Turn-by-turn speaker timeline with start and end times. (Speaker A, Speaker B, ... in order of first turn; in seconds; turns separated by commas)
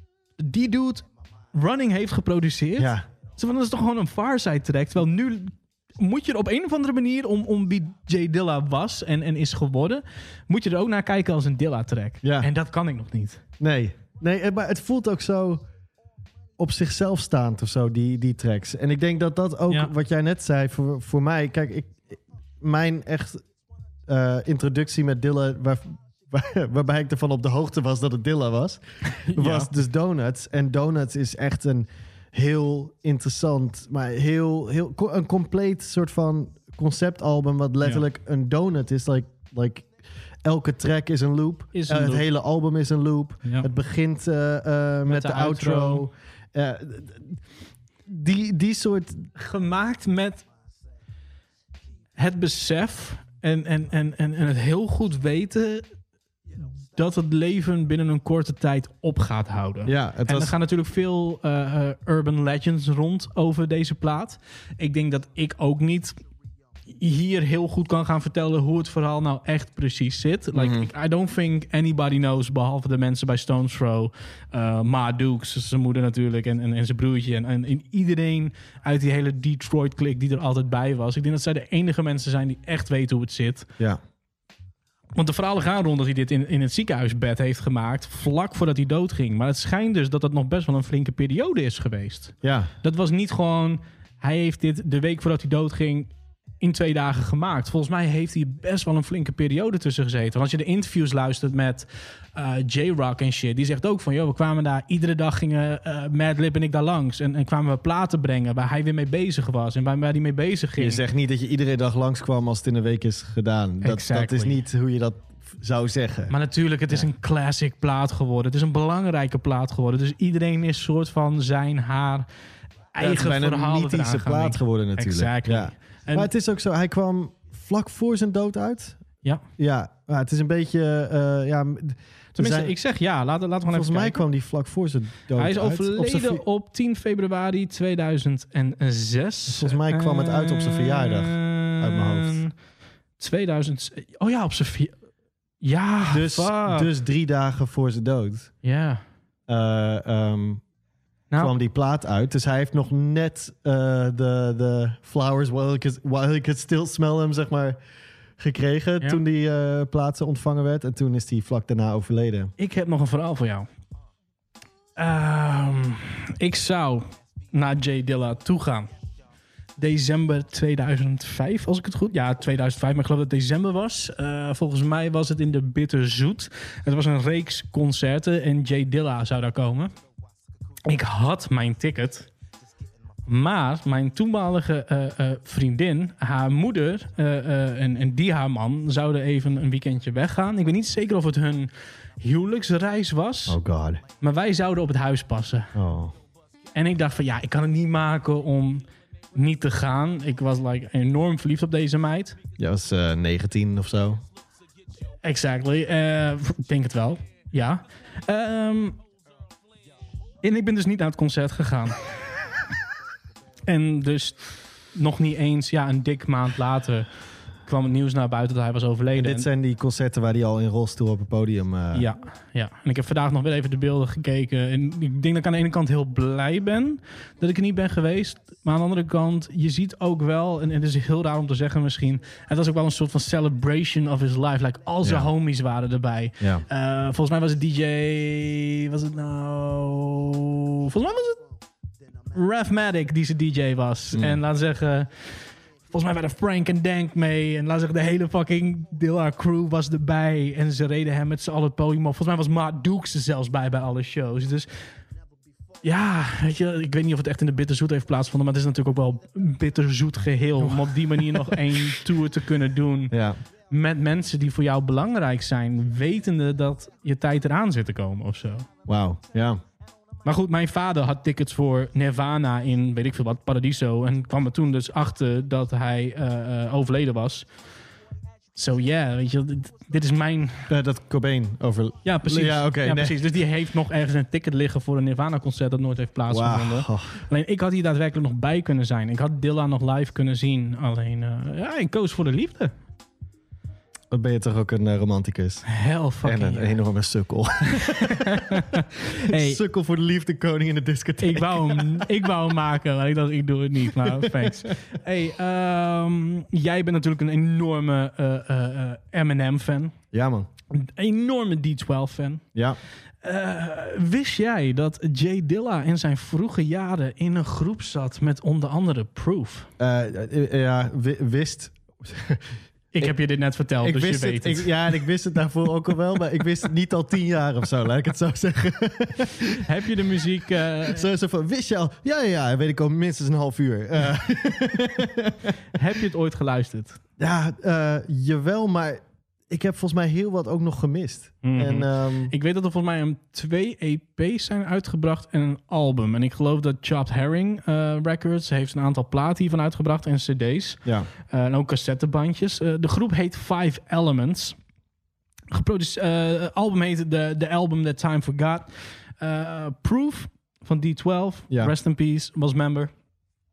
Speaker A: 0.4-13.4, Speaker B: 2.8-3.1, Speaker B: 12.2-12.5, Speaker B: 13.6-15.7, Speaker B: 16.6-23.4, Speaker B: 24.1-39.9, Speaker A: 29.1-29.7, Speaker B: 40.4-47.4, Speaker A: 41.7-42.3, Speaker A: 45.1-46.1, Speaker B: 48.1-49.3, Speaker A: 49.4-50.4, Speaker A: 52.2-55.9, Speaker A: 56.6-66.2, Speaker B: 59.9-60.5, Speaker A: 66.9-83.7, Speaker B: 70.5-70.9, Speaker A: 85.2-111.0, Speaker B: 92.4-92.7, Speaker B: 110.8-116.3, Speaker A: 113.8-114.6, Speaker A: 116.3-122.3, Speaker A: 122.9-126.3, Speaker B: 123.0-132.8, Speaker A: 132.4-134.2, Speaker B: 133.7-136.4, Speaker A: 135.4-142.5, Speaker B: 139.5-142.4, Speaker A: 143.2-144.9, Speaker A: 145.6-146.9, Speaker B: 146.1-148.5, Speaker A: 148.6-149.0, Speaker B: 149.5-150.6, Speaker B: 151.4-157.8, Speaker B: 158.4-162.5, Speaker A: 162.6-163.7, Speaker A: 165.0-168.9, Speaker A: 169.8-179.9, Speaker A: 180.9-182.3, Speaker A: 183.3-193.6, Speaker B: 193.5-194.0, Speaker A: 194.2-195.8, Speaker B: 195.7-196.2, Speaker A: 196.7-202.4, Speaker B: 202.6-204.2, Speaker A: 205.2-209.0, Speaker A: 210.4-212.1, Speaker A: 213.7-219.5, Speaker B: 219.1-222.1, Speaker A: 221.9-241.4, Speaker B: 235.0-235.3, Speaker B: 236.4-236.7, Speaker A: 242.3-254.9, Speaker B: 244.1-244.4, Speaker A: 255.8-263.2, Speaker B: 263.1-263.4, Speaker A: 263.7-268.7, Speaker B: 268.9-269.6, Speaker A: 270.2-277.5, Speaker A: 278.6-280.7, Speaker B: 280.7-283.2, Speaker A: 282.0-292.7, Speaker B: 286.3-287.2, Speaker B: 294.1-295.7, Speaker A: 295.7-296.8, Speaker B: 296.2-298.6, Speaker A: 298.3-299.6, Speaker B: 299.3-302.1, Speaker A: 301.2-309.9, Speaker B: 304.0-304.6, Speaker B: 310.1-310.5, Speaker A: 310.7-312.4, Speaker A: 313.2-319.7, Speaker B: 319.8-322.5, Speaker A: 322.9-324.8, Speaker B: 323.8-329.5, Speaker A: 329.6-331.1, Speaker B: 330.9-335.5, Speaker A: 335.7-337.0, Speaker B: 337.2-342.3, Speaker A: 341.4-354.6, Speaker B: 350.8-351.1, Speaker A: 355.5-362.9